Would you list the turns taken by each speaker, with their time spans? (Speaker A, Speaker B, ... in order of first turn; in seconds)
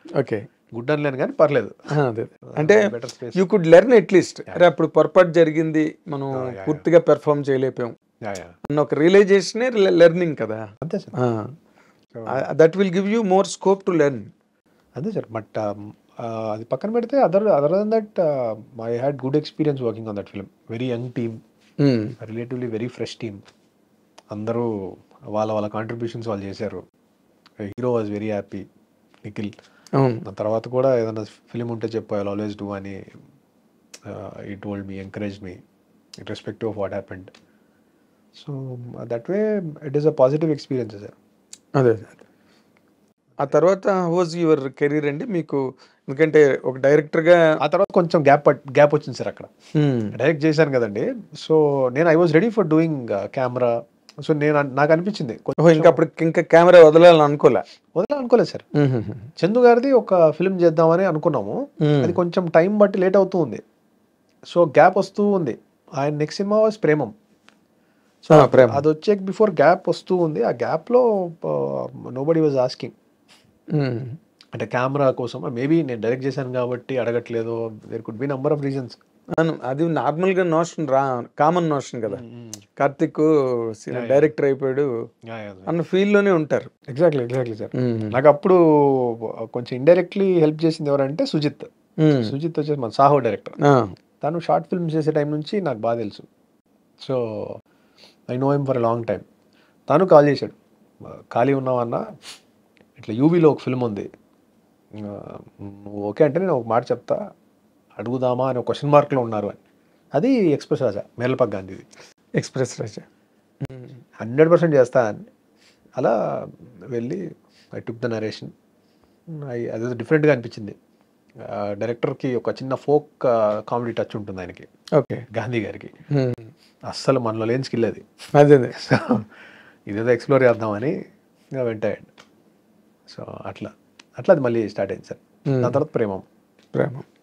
Speaker A: 0.2-0.5, 1.9-7.9, 8.7-10.6, 11.2-11.5, 12.3-14.3, 21.8-22.1, 30.0-30.2, 41.8-42.1, 43.4-47.4, 49.8-50.1, 55.6-57.6, 58.8-59.3, 61.8-62.2, 68.3-68.8, 73.7-74.2, 79.4-82.2, 82.8-84.9, 85.7-86.7, 87.8-88.1, 92.0-92.3, 93.6-93.9, 112.4-113.0, 113.6-114.0, 125.0-125.2, 126.1-126.5, 128.4-128.7, 135.5-135.8, 136.8-137.1
Speaker B: 0.7-1.7, 2.5-3.4, 6.3-6.8, 8.2-8.5, 10.8-11.1, 12.1-12.4, 15.0-21.4, 22.2-23.4, 24.3-24.7, 25.3-26.8, 27.6-28.6, 29.2-29.5, 30.2-33.0, 34.0-35.6, 36.2-37.3, 38.4-41.2, 47.6-49.5, 50.1-53.7, 54.3-56.0, 58.0-58.7, 59.4-63.6, 64.5-67.1, 68.2-72.9, 74.5-79.0, 82.1-82.6, 83.9-84.3, 85.3-85.8, 86.9-91.7, 92.2-93.6, 94.2-96.2, 97.0-97.5, 98.3-99.2, 99.9-100.5, 101.3-102.0, 103.0-104.1, 105.0-107.2, 108.0-109.6, 110.1-111.8, 114.2-115.2, 116.0-117.2, 117.8-118.5, 119.3-120.7, 121.4-124.7, 125.3-125.9, 126.9-128.0, 128.7-129.2, 129.9-130.9, 131.6-132.1, 133.1-136.2